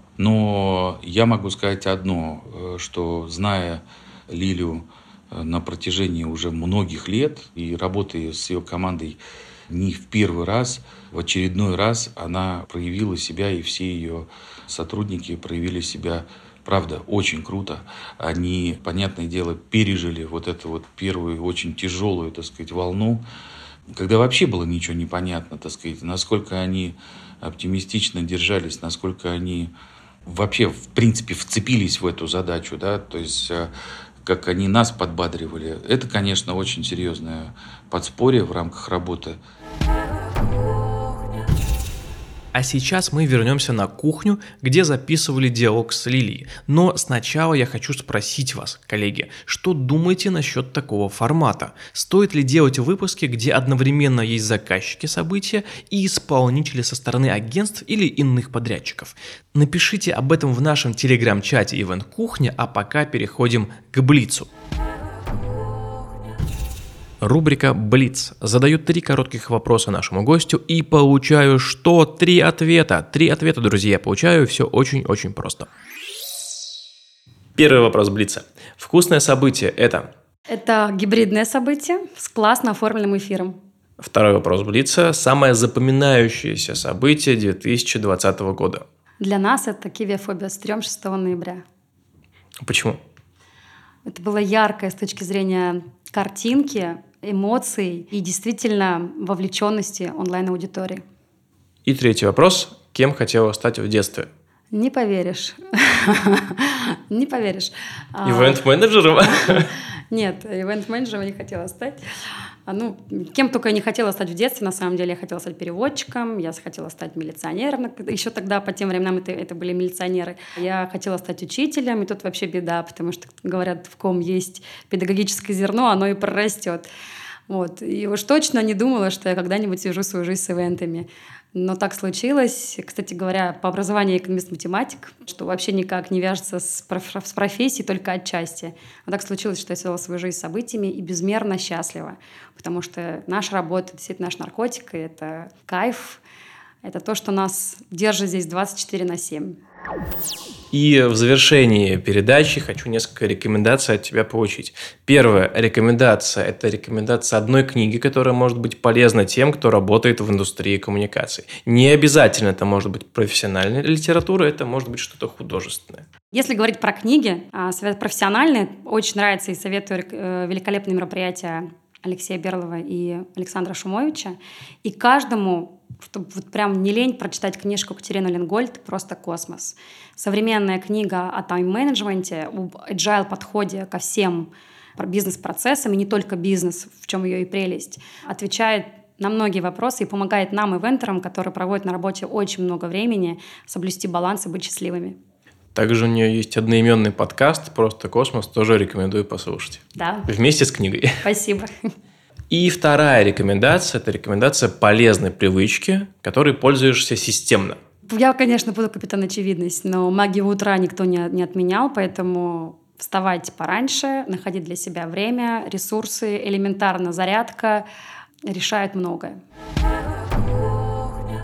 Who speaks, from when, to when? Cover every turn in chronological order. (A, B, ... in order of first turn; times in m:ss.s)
0:00.2-0:23.2 A
0:23.9-0:29.7 A
0:30.3-0:33.7 A
0:34.2-0:39.4 A
0:42.5-1:04.5 B
1:07.2-1:15.7 B
1:17.6-1:20.1 B
1:20.5-1:23.6 C
1:24.0-1:28.8 B
1:29.2-1:31.6 C
1:32.6-1:33.0 B
1:34.1-1:41.0 C
1:41.9-1:44.3 B
1:44.7-1:48.6 C
1:48.2-1:49.7 B
1:50.1-1:52.0 C
1:52.7-2:06.9 C
2:07.5-2:26.2 C
2:26.8-2:29.6 C
2:30.7-2:46.0 B
2:46.3-3:15.2 C
3:15.8-3:21.2 B
3:20.0-3:20.3 C
3:21.2-3:21.7 C
3:22.5-3:27.8 B
3:28.1-3:37.8 C
3:38.5-3:39.4 C